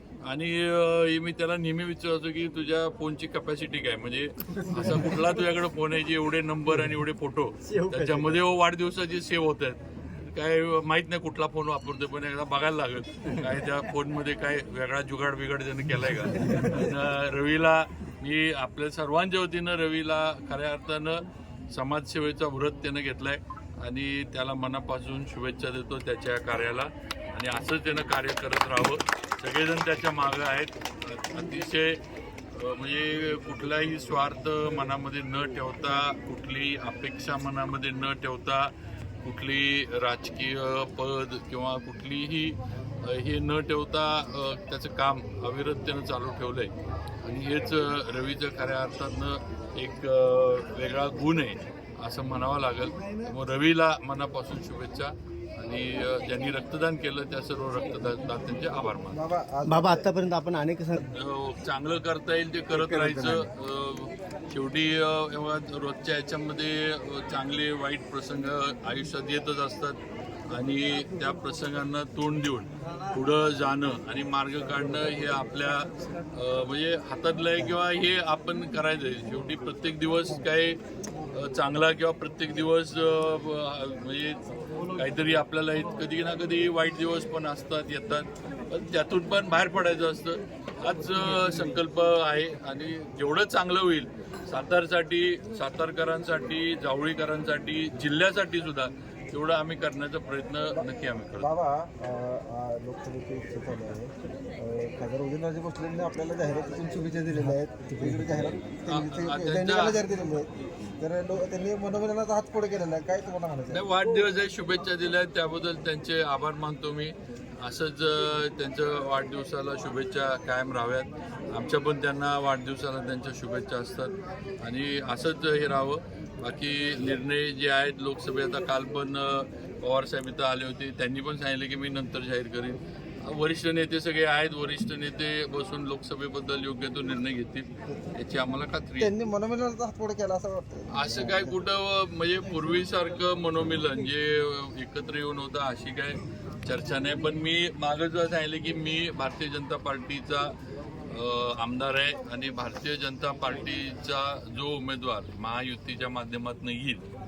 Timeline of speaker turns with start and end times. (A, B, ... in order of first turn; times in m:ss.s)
0:00.2-0:32.0 A
0:32.5-0:38.7 A
0:39.2-0:59.2 A
0:59.1-1:00.1 B
0:59.7-1:01.1 C
1:01.1-1:10.0 A
1:02.8-1:03.4 C
1:10.5-1:20.8 A
1:21.3-1:41.5 A
1:41.4-1:53.8 B
1:48.9-1:50.0 A
1:53.7-2:19.2 A
2:19.0-2:21.6 B
2:20.9-2:30.5 A
2:31.1-2:37.1 A